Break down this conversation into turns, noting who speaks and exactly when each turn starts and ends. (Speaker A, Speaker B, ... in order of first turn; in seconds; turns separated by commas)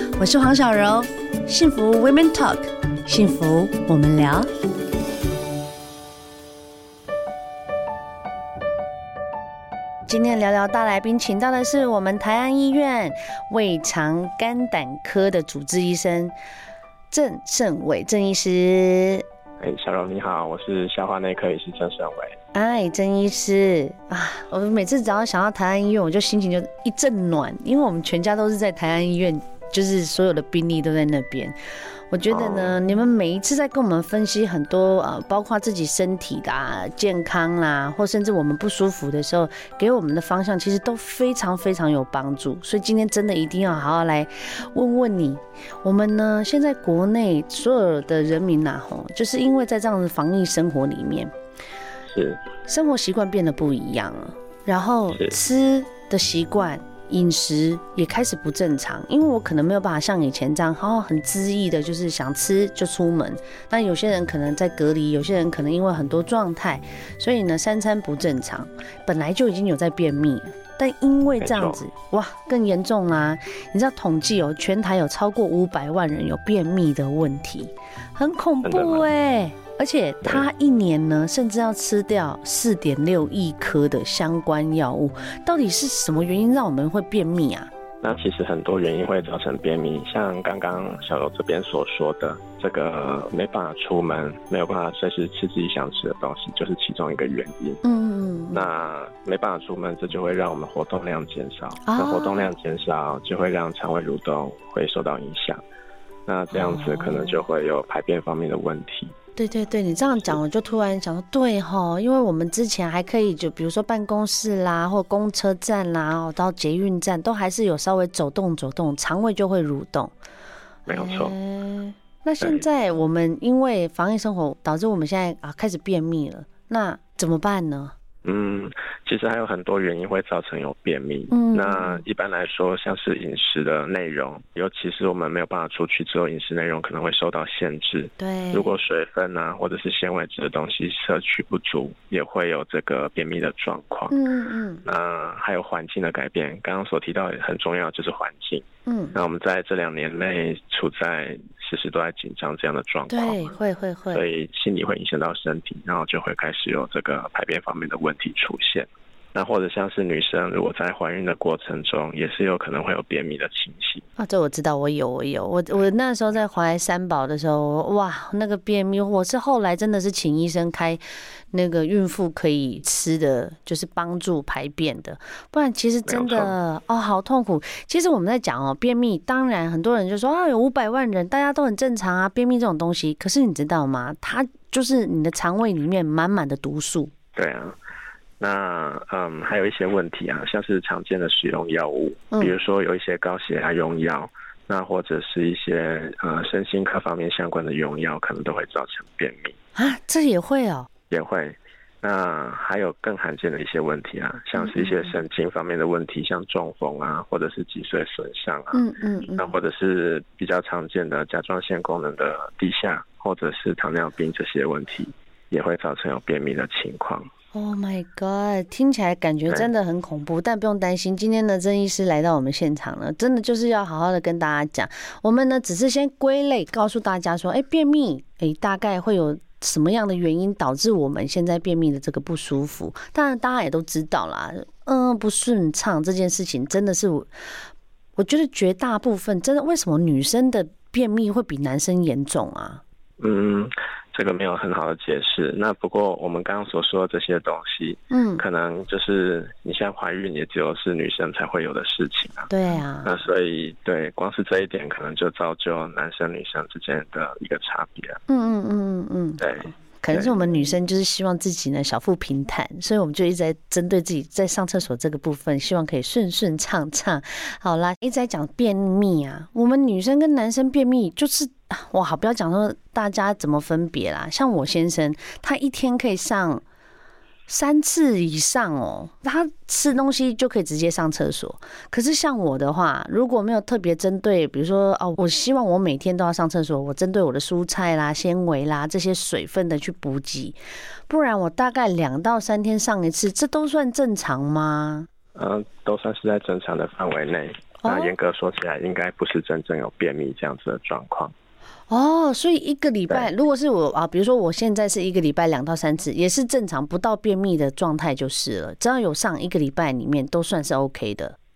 Speaker A: 0.2-4.5, Speaker A: 10.1-16.3, Speaker A: 17.1-19.2, Speaker B: 19.6-22.4, Speaker A: 22.5-31.6, Speaker A: 32.1-51.3, Speaker B: 32.3-32.8, Speaker B: 52.1-52.4, Speaker A: 52.7-87.7, Speaker B: 71.4-71.8, Speaker B: 78.6-79.1, Speaker B: 88.0-97.8, Speaker A: 97.8-98.6, Speaker B: 98.5-105.6, Speaker A: 101.8-102.5, Speaker B: 106.3-109.1, Speaker A: 106.5-107.4, Speaker A: 109.3-120.1, Speaker A: 120.8-127.9, Speaker B: 120.9-121.3, Speaker B: 122.4-122.7, Speaker B: 128.2-144.2, Speaker A: 131.3-132.0, Speaker A: 138.2-138.7, Speaker A: 144.1-144.8, Speaker B: 144.8-153.5, Speaker A: 148.9-149.1, Speaker A: 153.1-154.2, Speaker B: 154.1-164.0, Speaker A: 164.2-171.0, Speaker A: 171.5-187.1, Speaker B: 176.1-176.5, Speaker B: 187.3-187.8, Speaker B: 188.4-199.5, Speaker A: 199.7-200.9, Speaker B: 201.1-208.8, Speaker A: 204.6-205.1, Speaker A: 208.7-209.5, Speaker B: 209.3-217.3, Speaker A: 217.5-237.3, Speaker A: 238.2-242.8, Speaker B: 243.2-252.5, Speaker A: 248.1-248.4, Speaker A: 252.5-253.1, Speaker B: 253.0-258.2, Speaker A: 258.3-276.6, Speaker B: 259.4-260.3, Speaker A: 277.5-295.1, Speaker B: 295.3-301.3, Speaker A: 297.8-298.1, Speaker A: 301.9-311.4